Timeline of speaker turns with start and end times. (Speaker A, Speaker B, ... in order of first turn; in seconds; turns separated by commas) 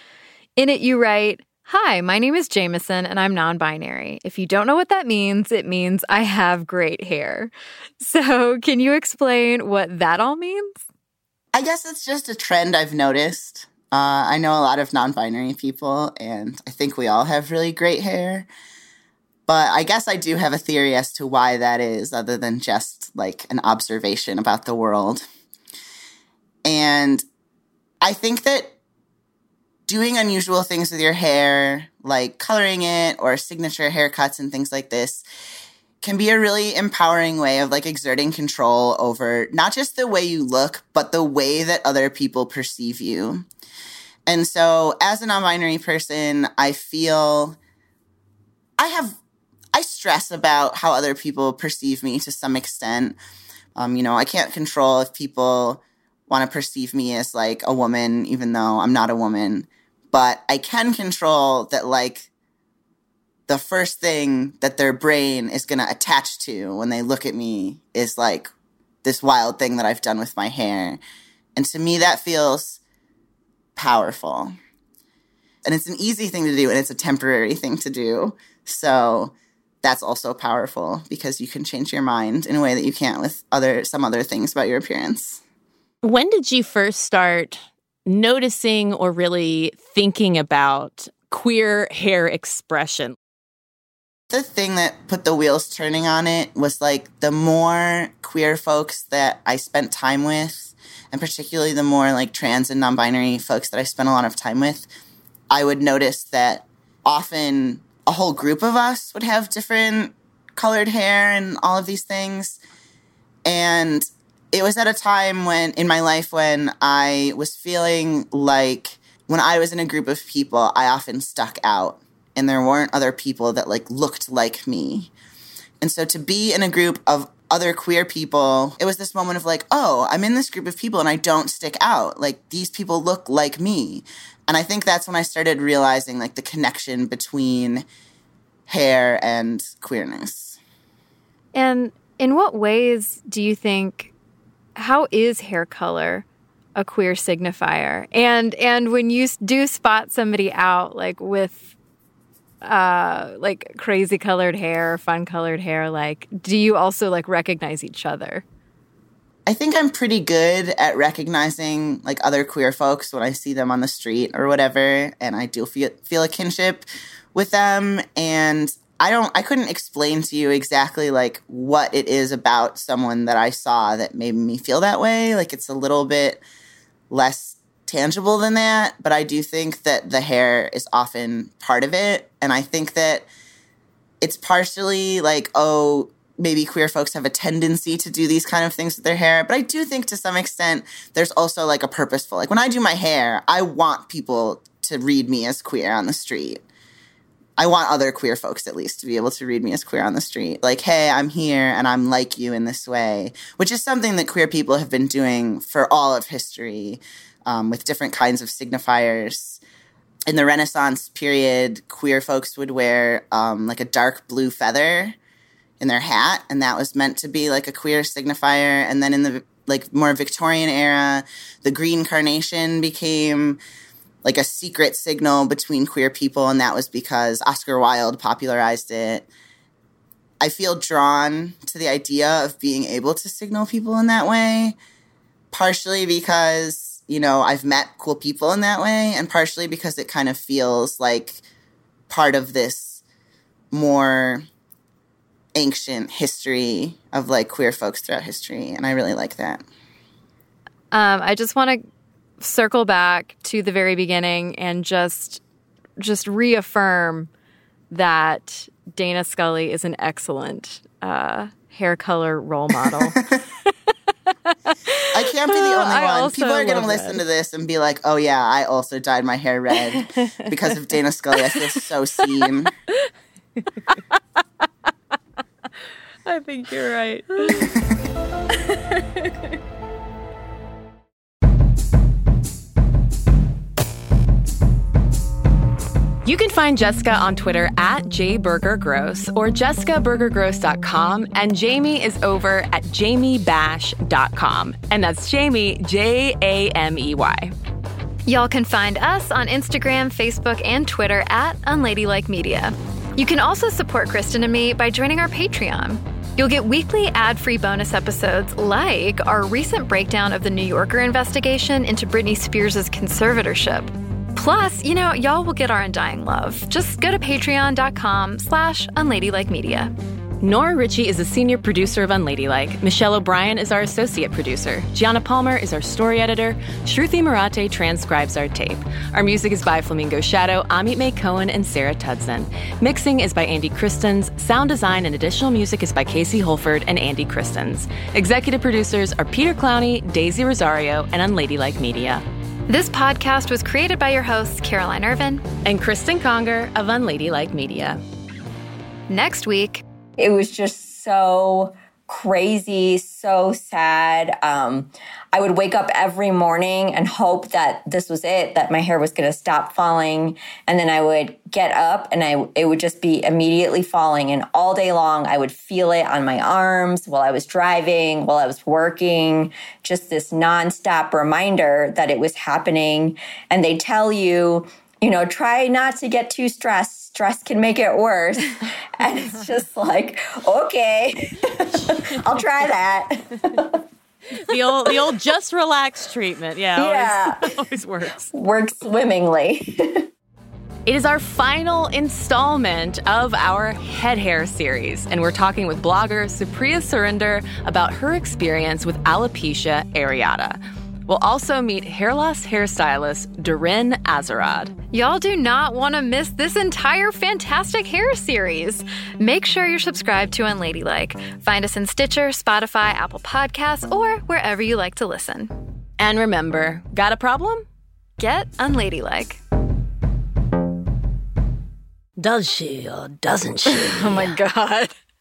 Speaker A: 0.6-10.8, Speaker B: 11.5-18.5, Speaker B: 19.5-25.3, Speaker B: 26.6-27.2, Speaker B: 28.0-28.7, Speaker B: 29.9-35.2, Speaker B: 36.0-43.5, Speaker B: 44.3-47.6, Speaker B: 48.8-49.2, Speaker B: 49.7-53.2, Speaker B: 53.8-62.3, Speaker B: 63.5-68.5, Speaker B: 69.0-71.0, Speaker B: 71.6-72.8, Speaker B: 73.8-74.5, Speaker B: 75.7-85.4, Speaker C: 86.0-93.2, Speaker B: 94.3-104.9, Speaker B: 105.5-112.6, Speaker B: 113.5-125.1, Speaker B: 125.8-137.8, Speaker B: 138.7-140.6, Speaker A: 141.5-144.1, Speaker A: 144.8-146.2, Speaker A: 146.8-151.7, Speaker A: 152.6-158.4, Speaker B: 159.5-176.4, Speaker B: 177.1-183.3, Speaker B: 184.2-196.6, Speaker B: 197.6-209.6, Speaker B: 210.3-215.2, Speaker B: 215.8-223.6, Speaker B: 224.2-229.3, Speaker B: 230.4-234.8, Speaker B: 235.5-241.4, Speaker B: 242.1-243.0, Speaker B: 243.7-244.4, Speaker B: 245.6-249.7, Speaker A: 250.9-251.8, Speaker A: 252.4-255.4, Speaker A: 256.0-257.3, Speaker A: 257.9-263.2, Speaker A: 264.9-267.2, Speaker B: 265.1-272.7, Speaker C: 270.1-270.5, Speaker C: 276.3-277.5, Speaker B: 277.6-277.9, Speaker C: 286.2-297.5, Speaker A: 298.3-319.9, Speaker C: 320.4-342.2, Speaker A: 342.7-345.4, Speaker C: 345.6-348.0, Speaker A: 349.1-349.8, Speaker D: 350.2-383.8, Speaker C: 381.8-382.5, Speaker C: 384.4-388.3, Speaker D: 384.5-385.0, Speaker D: 386.8-387.6, Speaker D: 388.3-389.9, Speaker C: 390.9-404.7, Speaker A: 404.9-415.5, Speaker C: 416.0-417.7, Speaker A: 418.2-419.4, Speaker E: 422.2-424.3, Speaker A: 423.7-424.9